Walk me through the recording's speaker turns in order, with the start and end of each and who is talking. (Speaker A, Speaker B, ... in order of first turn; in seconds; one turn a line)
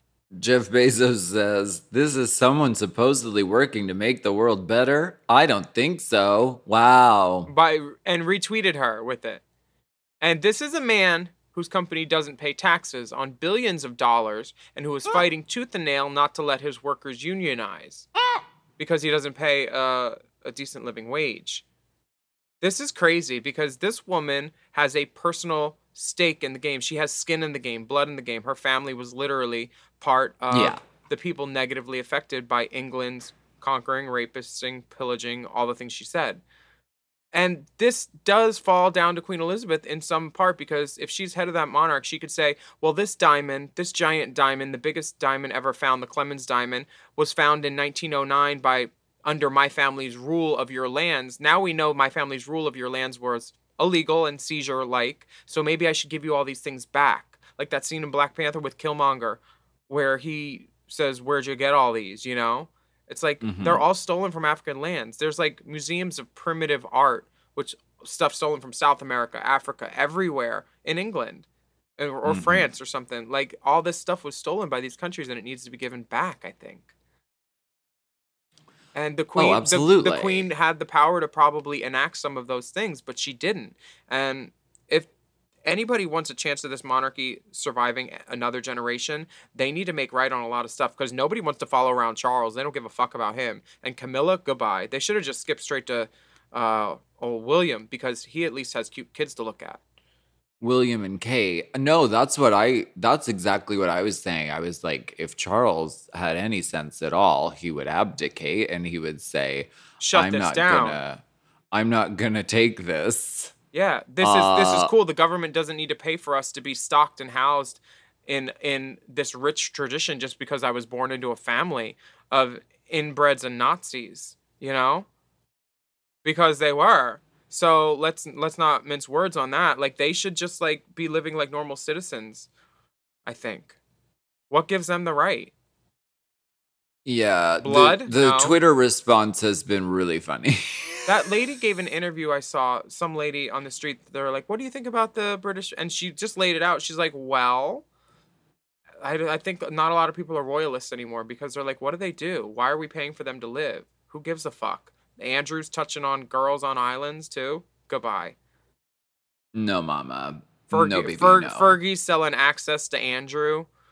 Speaker A: 0.3-7.5
Speaker B: 7.5-9.4
Speaker B: 10.2-18.1
Speaker B: 18.8-21.6
Speaker B: 22.6-36.4
Speaker A: 30.5-30.8
Speaker B: 37.3-71.5
Speaker A: 63.4-63.8
Speaker B: 72.0-76.9
Speaker A: 72.2-72.7
Speaker B: 78.9-85.1
Speaker A: 79.3-80.5
Speaker B: 85.7-99.8
Speaker A: 100.6-113.5
Speaker B: 110.0-111.0
Speaker B: 113.7-125.1
Speaker A: 114.2-114.9
Speaker B: 126.2-132.5
Speaker B: 133.2-133.8
Speaker B: 134.5-135.5
Speaker A: 137.0-141.1
Speaker B: 137.6-138.6
Speaker B: 141.1-147.8
Speaker B: 149.0-158.3
Speaker A: 159.5-161.7
Speaker B: 160.7-163.7